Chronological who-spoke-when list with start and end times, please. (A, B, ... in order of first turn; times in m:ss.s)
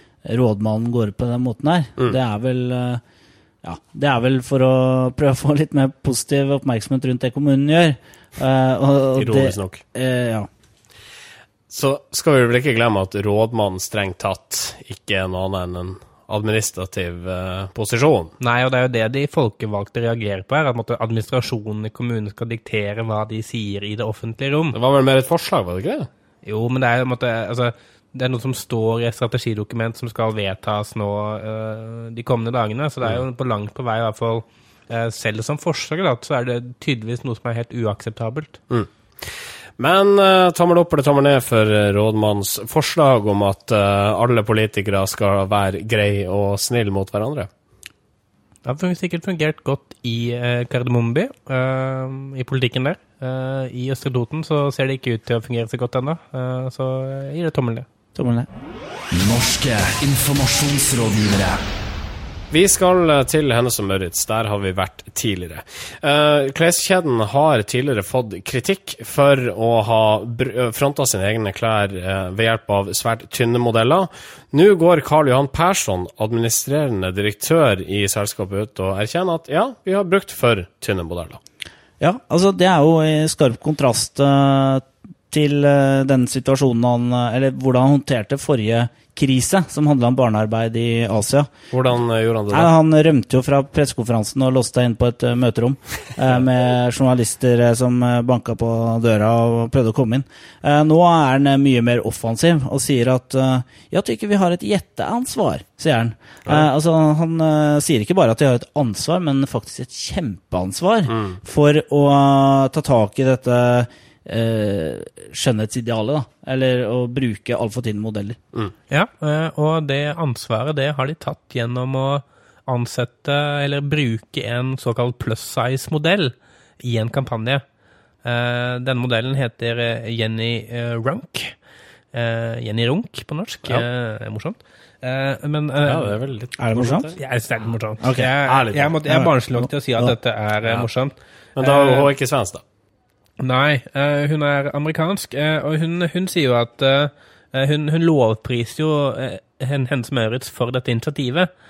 0:00.2-0:03.0 A
0:03.6-0:10.5 A
0:09.1-0:09.8 B
0:11.7-0:18.3 B
0:18.4-0:24.8 C
0:24.7-0:26.1 B
0:26.4-0:38.6 C
0:38.7-0:47.5 B
0:48.6-0:57.8 C
0:58.1-0:58.5 A
0:59.1-1:01.6 D
1:02.5-1:21.4 B
1:22.0-1:31.5 A
1:31.7-1:32.7 B
1:32.5-1:58.4 A
1:51.1-1:51.4 B
1:58.9-2:07.6 C
2:08.2-2:11.5 C
2:12.1-2:16.2 C
2:15.8-2:17.2 B
2:16.6-2:17.1 A
2:17.2-2:22.1 C
2:18.0-2:18.3 A
2:18.4-2:18.9 B
2:19.1-2:20.1 A
2:21.6-2:22.6 B
2:23.4-2:31.5 C